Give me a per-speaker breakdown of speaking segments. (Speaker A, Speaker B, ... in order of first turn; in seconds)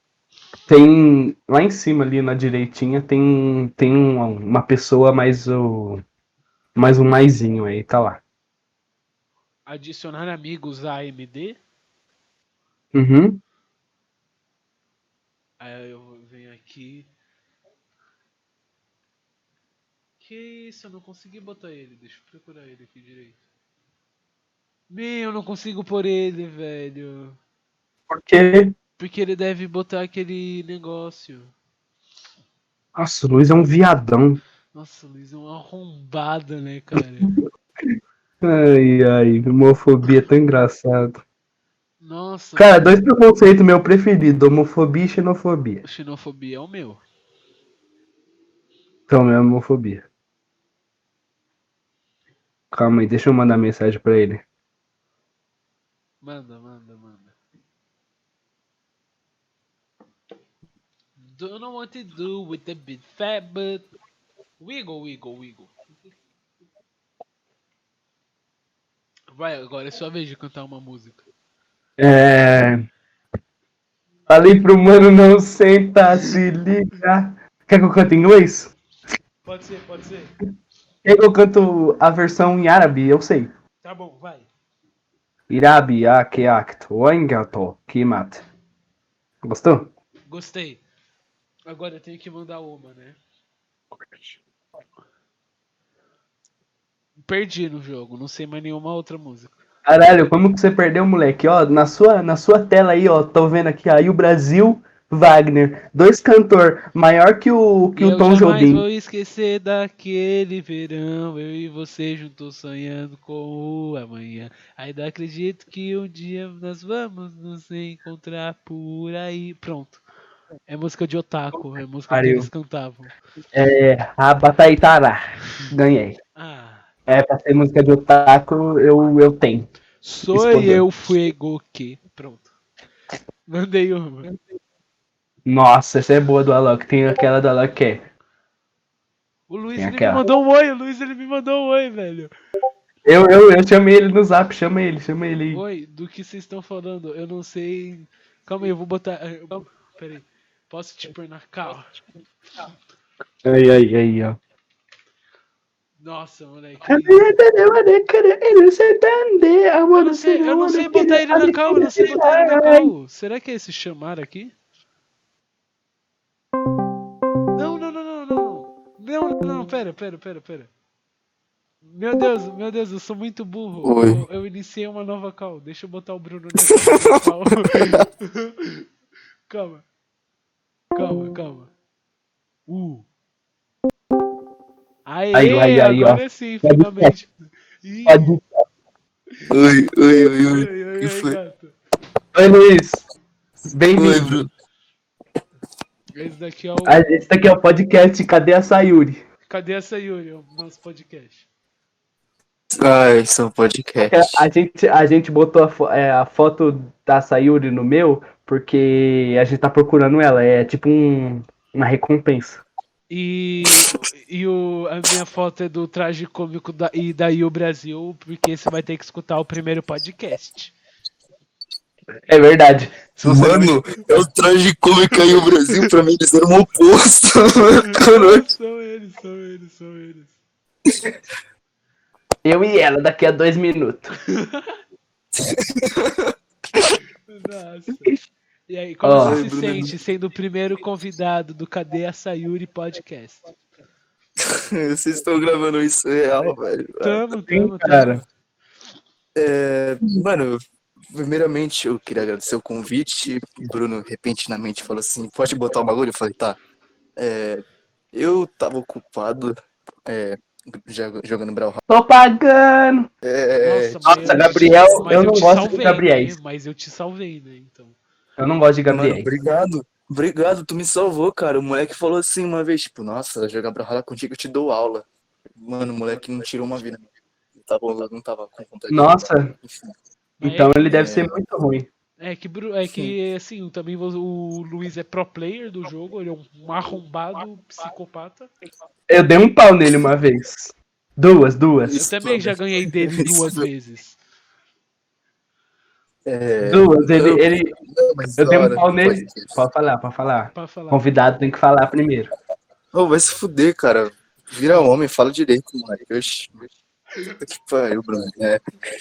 Speaker A: 0.7-6.0, 6.8-8.2, 12.9-13.4, 28.1-28.7, 32.9-34.4, 37.2-41.2, 42.5-45.8, 49.1-50.0, 52.7-54.4, 72.0-72.8, 74.3-78.7, 81.0-83.5, 85.5-88.4, 89.4-89.9, 99.8-108.8, 122.1-122.5, 123.5-126.2, 127.1-129.7, 130.3-130.8, 135.4-138.0, 139.8-140.2, 143.0-145.6, 153.4-154.4, 156.8-162.9, 185.3-187.1, 188.1-188.5, 192.3-193.0, 193.7-194.4, 196.8-199.2, 204.1-212.6, 222.3-224.2, 232.4-234.1, 239.0-239.4, 247.5-248.2, 261.9-263.1, 264.1-266.3, 268.4-269.3, 278.9-279.5, 280.4-281.9, 289.1-292.0, 296.6-297.7, 298.4-302.3
Speaker B: 9.7-11.6, 15.6-17.1, 20.2-23.4, 24.9-27.4, 29.0-31.5, 34.7-37.3, 42.0-43.0, 45.8-47.0, 56.2-57.3, 61.2-63.9, 64.6-66.1, 69.3-71.2, 79.4-80.3, 83.8-84.5, 90.3-90.8, 91.7-93.2, 97.3-99.5, 108.0-120.0, 120.7-123.1, 126.3-126.9, 130.0-132.5, 133.5-134.3, 139.5-142.3, 145.5-152.0, 156.0-157.3, 159.9-164.5, 167.5-170.7, 171.9-178.8, 179.5-179.8, 180.9-181.7, 182.7-183.1, 185.1-188.4, 190.3-191.7, 196.1-197.1, 199.5-201.5, 213.1-220.7, 227.8-230.3, 234.3-234.8, 237.3-238.2, 238.7-243.4, 247.0-248.2, 263.6-268.0, 280.4-280.9, 282.2-288.5, 291.9-294.2, 300.5-301.0
Speaker C: 173.8-174.2, 176.8-177.2, 189.5-191.4, 193.9-194.5, 202.7-204.4, 223.2-228.4, 235.3-236.3, 239.2-239.9, 244.4-247.2, 249.3-256.6, 257.2-261.8, 263.2-265.0, 268.9-275.1, 275.6-279.9, 280.8-281.3, 291.9-293.6, 296.2-299.5, 302.9-306.7, 307.5-308.6